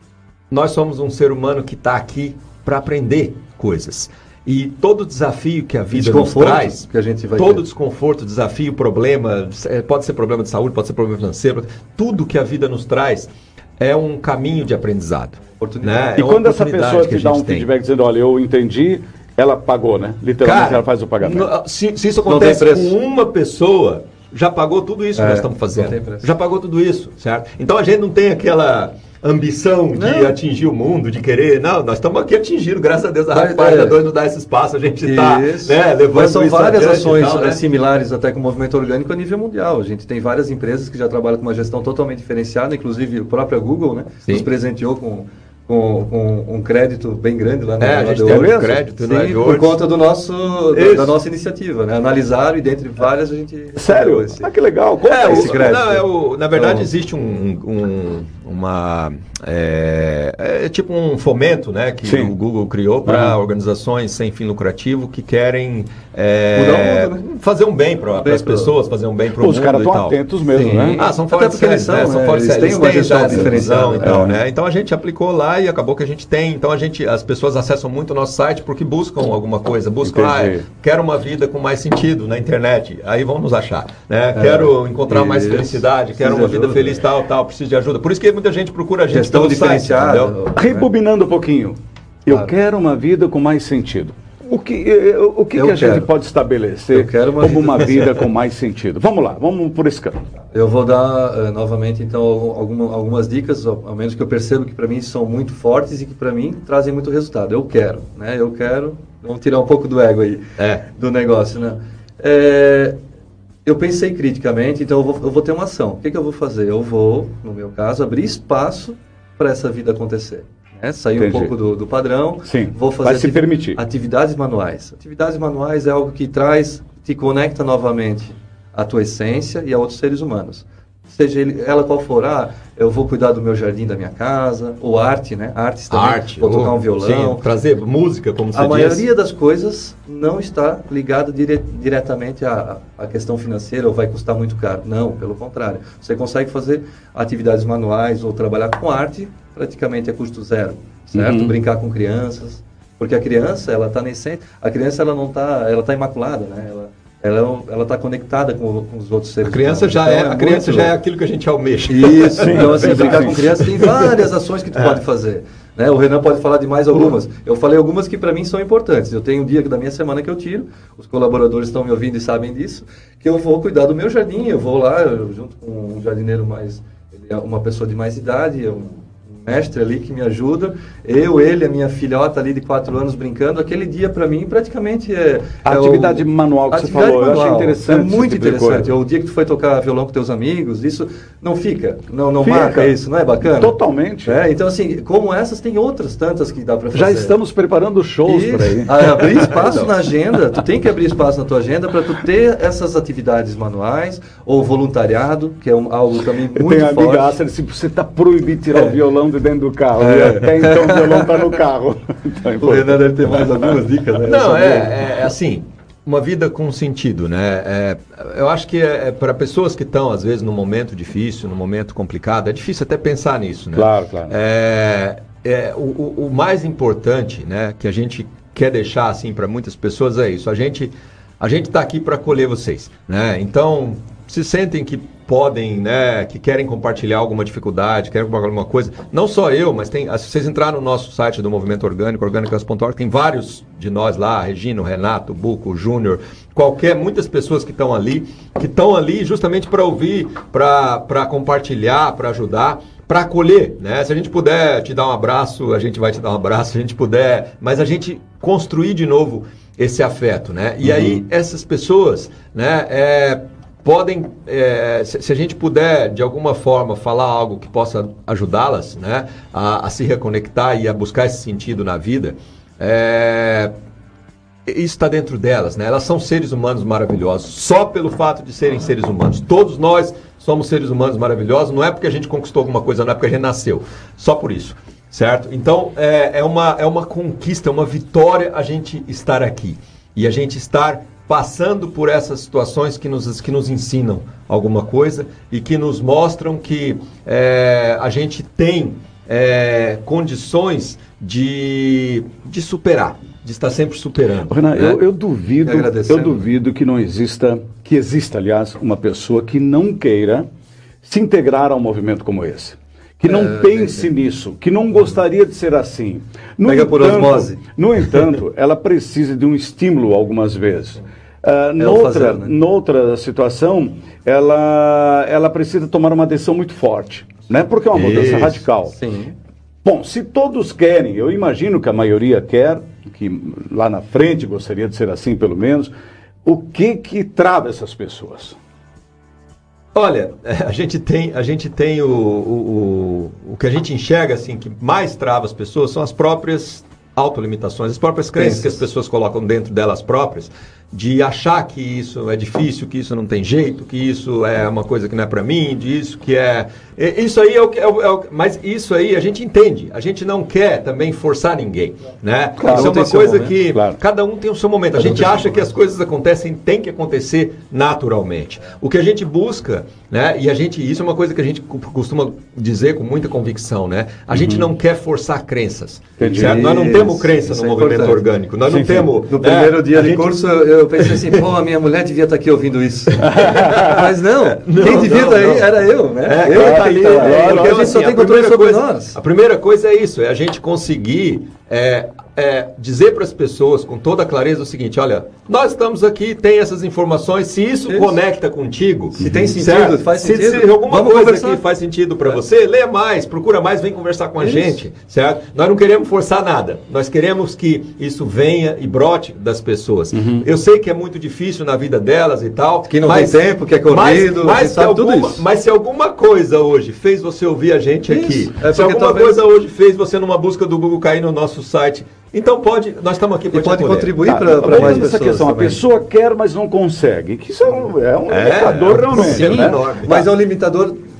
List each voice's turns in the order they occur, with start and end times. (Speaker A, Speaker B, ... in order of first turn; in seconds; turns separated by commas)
Speaker A: 0.5-17.7, Speaker B: 5.9-7.6, Speaker B: 15.5-16.2, Speaker C: 16.2-21.5, Speaker A: 20.4-37.6, Speaker B: 22.3-22.9, Speaker B: 25.2-26.3, Speaker B: 29.9-30.4, Speaker B: 33.3-34.0, Speaker B: 35.0-54.5, Speaker A: 47.8-49.8, Speaker C: 48.3-48.8, Speaker A: 50.7-51.2, Speaker C: 53.8-55.8, Speaker A: 55.1-70.2, Speaker B: 55.2-56.9, Speaker C: 62.0-62.3, Speaker C: 63.1-63.4, Speaker B: 66.5-67.3, Speaker B: 68.1-68.7, Speaker C: 69.4-71.0, Speaker B: 70.5-74.3, Speaker A: 70.8-90.3, Speaker C: 73.3-74.4, Speaker C: 80.0-80.7, Speaker B: 84.3-87.0, Speaker B: 89.1-90.9, Speaker C: 90.6-100.2, Speaker B: 95.5-96.1, Speaker B: 96.9-98.1, Speaker B: 100.5-113.0, Speaker A: 110.6-110.8, Speaker B: 113.7-137.4, Speaker C: 121.2-121.5, Speaker C: 122.5-123.8, Speaker A: 135.9-139.1, Speaker B: 138.6-160.9, Speaker C: 151.2-151.5, Speaker A: 159.4-164.1, Speaker B: 161.9-193.8, Speaker C: 162.4-163.3, Speaker C: 185.7-188.9, Speaker C: 192.4-192.9, Speaker C: 193.5-194.4, Speaker B: 194.3-197.3, Speaker C: 196.9-199.9, Speaker B: 198.3-207.4, Speaker C: 206.6-213.0, Speaker B: 210.0-211.4, Speaker B: 212.6-215.0, Speaker A: 214.2-273.7, Speaker C: 223.7-224.4, Speaker C: 260.8-261.2, Speaker A: 274.7-305.0, Speaker C: 304.5-310.5, Speaker B: 305.6-306.4, Speaker C: 311.0-328.9, Speaker B: 313.3-314.1, Speaker B: 316.6-317.6, Speaker B: 321.8-322.6, Speaker A: 327.9-328.6, Speaker B: 328.9-329.4, Speaker C: 329.9-335.9, Speaker C: 336.4-338.6, Speaker A: 339.9-380.4, Speaker B: 348.4-348.8, Speaker C: 362.6-363.0, Speaker B: 362.6-363.6, Speaker C: 363.7-364.0, Speaker B: 365.0-365.6, Speaker C: 374.3-374.7, Speaker C: 376.2-376.7, Speaker B: 376.3-378.2, Speaker C: 378.7-379.1, Speaker B: 379.2-389.2, Speaker A: 381.0-381.3, Speaker A: 383.1-425.1, Speaker C: 383.2-383.9, Speaker C: 386.4-387.9, Speaker B: 397.9-398.1, Speaker B: 399.1-401.6, Speaker B: 404.4-404.8, Speaker C: 410.1-410.5, Speaker B: 412.9-415.4, Speaker B: 418.1-419.4, Speaker B: 423.5-425.8, Speaker C: 424.2-429.8, Speaker A: 428.3-430.3, Speaker B: 429.1-431.0